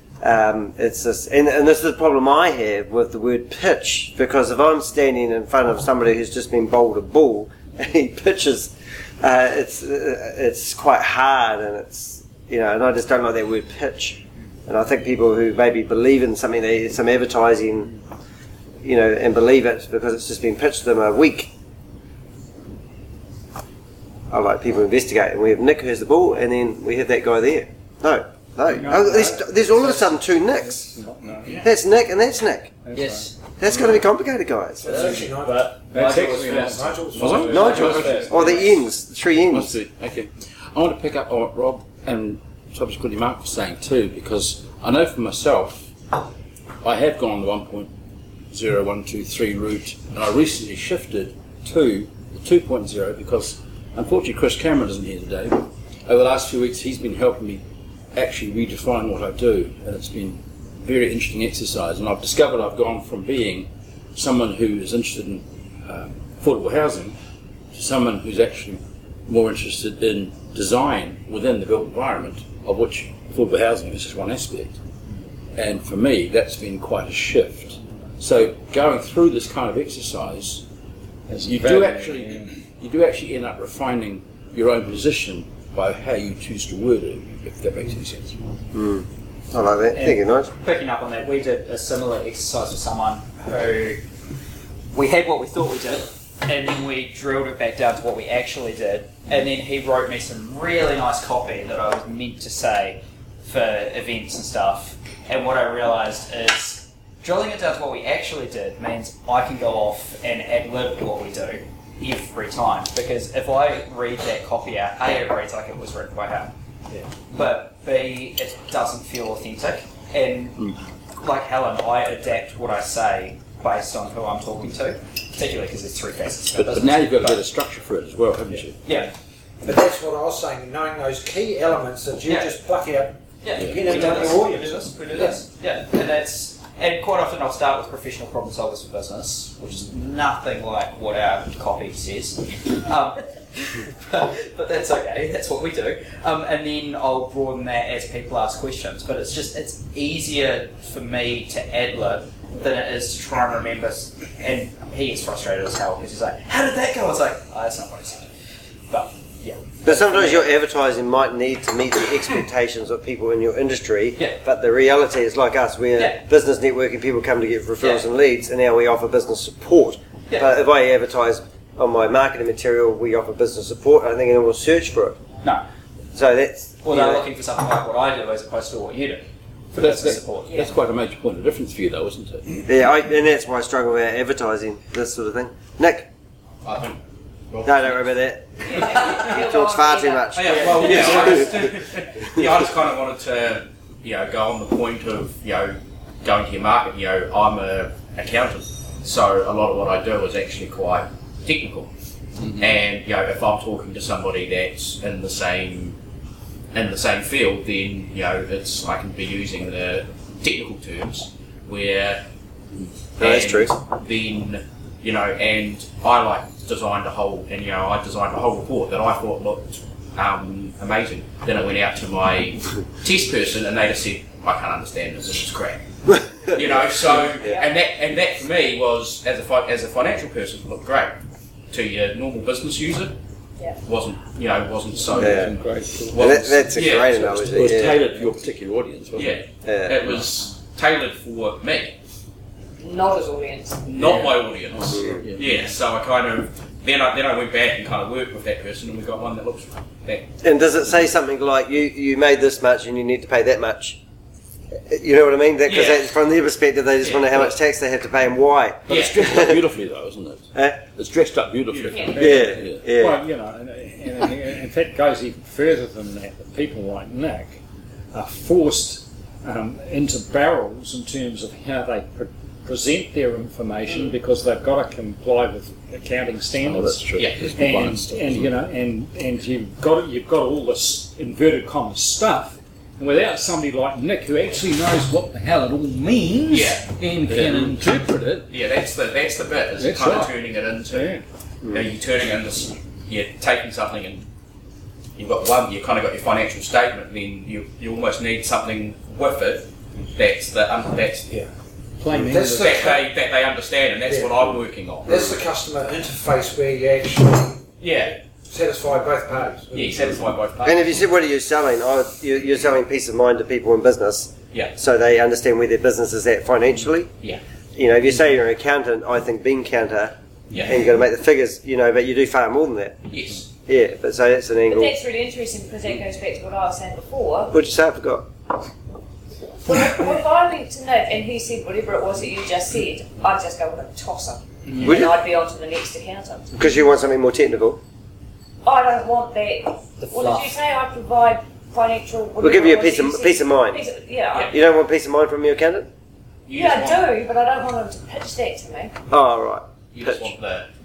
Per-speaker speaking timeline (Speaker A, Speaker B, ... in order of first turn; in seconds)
Speaker A: 0.2-17.9, 18.8-21.5, 24.3-31.0, 31.6-32.8, 33.6-35.0, 37.5-39.8, 88.7-90.5, 159.8-175.2, 176.1-177.3, 182.7-186.1, 187.6-191.7, 213.2-213.8, 226.1-227.7, 235.2-235.6, 236.1-238.0, 239.7-240.0, 244.9-245.2, 250.4-254.0, 254.9-259.6, 260.6-260.8, 262.2-263.2, 310.6-317.1, 317.8-323.0, 323.7-324.9, 327.5-328.3, 334.8-335.1, 336.6-337.8, 342.4-343.8, 344.5-345.9, 349.1-350.3
Speaker B: 28.7-31.6, 32.9-33.3, 34.9-35.4, 35.9-38.6, 81.3-82.5, 235.3-236.4, 262.1-267.6, 268.1-288.5, 289.8-291.2, 302.0-303.0, 334.7-334.9
Speaker C: 32.9-33.3, 34.9-36.8, 37.9-38.2, 89.9-94.0, 94.9-116.5, 117.3-120.6, 121.2-127.5, 128.8-129.1, 132.3-132.5, 133.4-158.3, 158.9-160.5, 166.0-166.2, 167.8-168.1, 176.8-180.7, 190.4-191.8, 340.0-340.5
Speaker D: 33.7-34.0, 37.2-38.8, 39.4-45.9, 46.8-47.9, 48.5-57.6, 58.1-67.2, 67.7-74.8, 75.6-80.6, 81.3-88.3, 126.5-128.8, 133.6-133.9, 179.8-182.6, 237.3-239.5, 244.0-245.7, 258.9-262.9, 276.6-278.5, 287.3-287.7
Speaker E: 34.8-38.0, 129.7-135.4, 302.1-303.1, 304.1-304.5, 305.1-307.6, 308.5-310.1
Speaker F: 186.6-187.0, 187.5-188.1, 190.4-201.9, 202.6-206.0, 206.7-212.2, 213.2-225.8, 226.3-231.2, 231.7-233.1, 233.8-235.6, 236.1-237.9, 239.2-242.0, 243.8-250.3, 255.7-256.2, 257.0-257.5, 258.9-259.2, 277.2-277.5, 286.5-286.9, 288.5-294.3, 295.2-301.3, 302.4-305.3, 307.8-308.2, 309.7-311.1, 320.5-320.9, 323.1-323.5, 346.5-347.1, 349.9-350.7
Speaker G: 188.7-190.7, 227.4-227.7, 242.8-243.9, 261.9-262.3, 324.7-327.6, 329.6-336.6, 338.6-344.6, 346.5-348.9